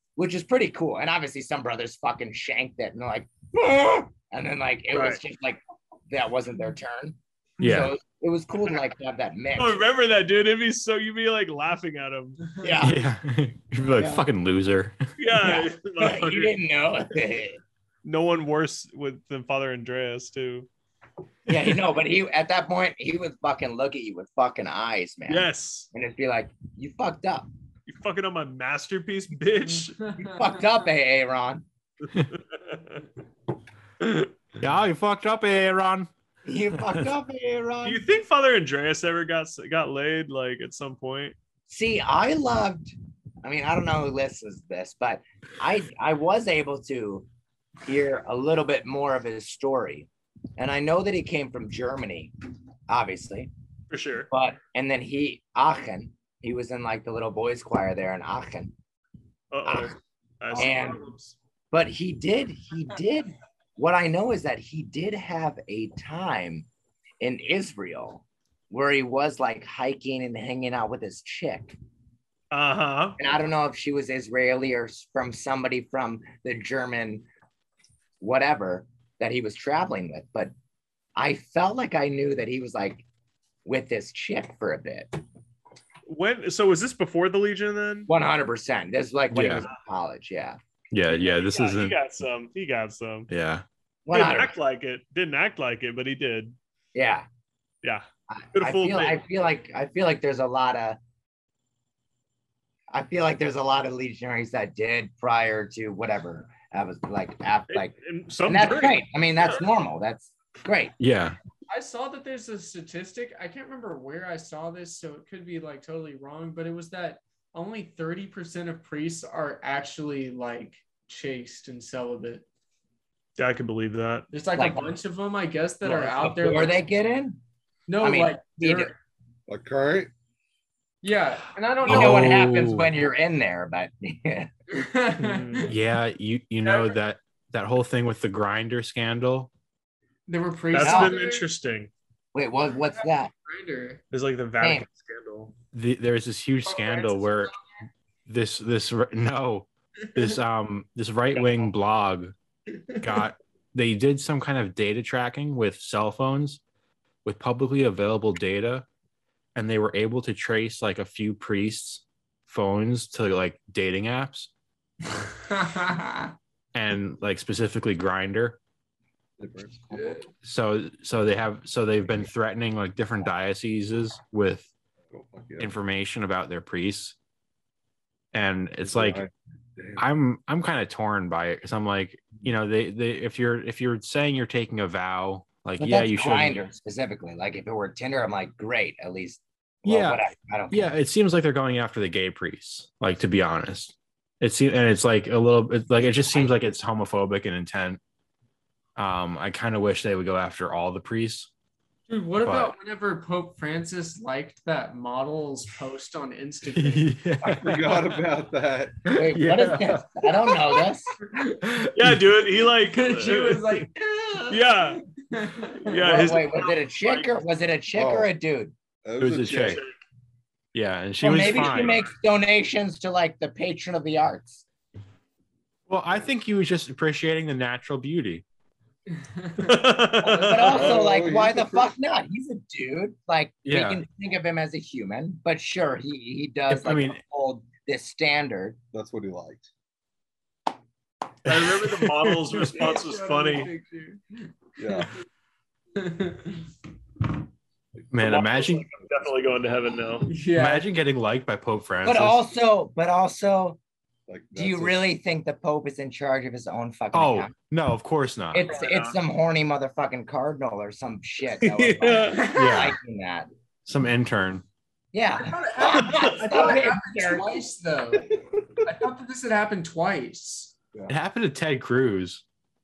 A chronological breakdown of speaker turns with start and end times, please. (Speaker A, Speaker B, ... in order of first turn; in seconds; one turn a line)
Speaker A: 0.2-9.9
Speaker B: 4.9-5.2
Speaker C: 7.6-8.0
Speaker B: 9.6-12.4
Speaker A: 12.6-13.0
Speaker C: 12.8-15.5
Speaker A: 13.9-14.2
Speaker B: 15.2-16.6
Speaker A: 15.4-17.6
Speaker B: 18.0-20.7
Speaker A: 21.5-27.5
Speaker B: 25.3-25.9
Speaker B: 27.9-30.0
Speaker A: 30.2-31.6
Speaker B: 32.3-33.0
Speaker B: 34.0-34.3
Speaker C: 34.6-36.1
Speaker A: 36.5-38.0
Speaker B: 37.8-41.4
Speaker A: 41.7-47.3
Speaker A: 47.8-52.3
Speaker A: 52.9-53.5
Speaker B: 53.9-54.3
Speaker A: 54.3-58.7
Speaker B: 59.5-61.4
Speaker A: 59.6-60.0
Speaker A: 60.5-61.0
Speaker A: 61.7-66.7
Speaker A: 67.2-71.8
Speaker B: 72.5-73.2
Speaker A: 73.2-77.2
Speaker A: 78.2-80.5
Speaker A: 81.2-83.0
Speaker A: 83.7-85.2
Speaker B: 86.1-88.1
Speaker A: 88.1-90.6
Speaker C: 89.3-89.7
Speaker C: 90.9-92.0
Speaker B: 91.2-93.3
Speaker C: 93.3-93.7
Speaker A: 94.1-94.5
Speaker B: 94.1-96.6
Speaker A: 97.0-97.3
Speaker B: 97.8-99.2
Speaker A: 98.3-101.0
Speaker A: 102.9-107.9
Speaker B: 107.7-109.6
Speaker A: 108.5-111.0
Speaker C: 111.0-111.4
Speaker D: 111.7-122.5
Speaker B: 123.4-124.3
Speaker D: 124.3-126.8
Speaker A: 124.6-124.9
Speaker A: 125.8-127.4
Speaker D: 127.9-128.9
Speaker A: 128.0-128.9
Speaker E: 129.5-130.1
Speaker D: 131.0-132.5
Speaker C: 131.8-132.9
Speaker A: 131.8-134.5
Speaker D: 134.7-135.7
Speaker B: 135.2-135.7
Speaker C: 135.7-139.5
Speaker D: 136.6-136.9
Speaker D: 140.3-141.4
Speaker B: 140.7-141.9
Speaker A: 140.8-141.2
Speaker A: 142.3-143.3
Speaker D: 143.0-144.0
Speaker B: 144.1-145.5
Speaker A: 144.6-144.9
Speaker C: 145.7-147.5
Speaker D: 146.7-147.5
Speaker C: 148.3-152.3
Speaker C: 153.0-156.6
Speaker C: 157.2-158.9
Speaker C: 159.6-164.5
Speaker D: 165.5-166.3
Speaker C: 166.7-168.6
Speaker E: 169.4-170.2
Speaker C: 170.4-174.7
Speaker E: 175.1-175.8
Speaker C: 175.6-177.2
Speaker C: 178.3-179.2
Speaker E: 178.8-180.0
Speaker C: 180.0-186.6
Speaker A: 185.8-190.9
Speaker C: 189.9-198.0
Speaker A: 196.0-196.7
Speaker C: 199.0-201.5
Speaker D: 202.1-207.1
Speaker C: 202.4-202.8
Speaker C: 206.7-208.2
Speaker E: 207.4-209.1
Speaker C: 209.1-210.7
Speaker A: 209.1-211.2
Speaker C: 211.6-212.3
Speaker B: 211.9-213.7
Speaker D: 212.8-214.6
Speaker B: 214.5-215.0
Speaker D: 215.2-216.3
Speaker B: 215.8-217.3
Speaker A: 216.0-218.7
Speaker E: 217.9-218.3
Speaker E: 219.1-219.8
Speaker C: 219.2-219.8
Speaker C: 220.7-222.1
Speaker A: 221.2-224.7
Speaker C: 225.9-228.4
Speaker D: 229.2-229.7
Speaker B: 229.6-231.0
Speaker A: 230.2-238.8
Speaker E: 230.5-231.9
Speaker C: 233.7-234.0
Speaker C: 236.7-237.2
Speaker E: 238.9-239.7
Speaker C: 241.4-242.5
Speaker B: 241.5-243.7
Speaker D: 242.5-245.1
Speaker E: 244.8-245.1
Speaker D: 246.0-246.7
Speaker C: 248.1-248.9
Speaker B: 248.2-250.3
Speaker D: 250.3-250.8
Speaker C: 250.6-252.4
Speaker A: 252.0-253.8
Speaker E: 254.3-255.1
Speaker A: 254.6-257.5
Speaker C: 257.1-258.6
Speaker A: 258.5-263.5
Speaker B: 258.7-259.1
Speaker B: 261.6-262.5
Speaker D: 262.3-262.9
Speaker C: 262.5-263.0
Speaker C: 263.9-264.6
Speaker A: 265.1-267.6
Speaker D: 265.4-270.8
Speaker C: 271.1-272.4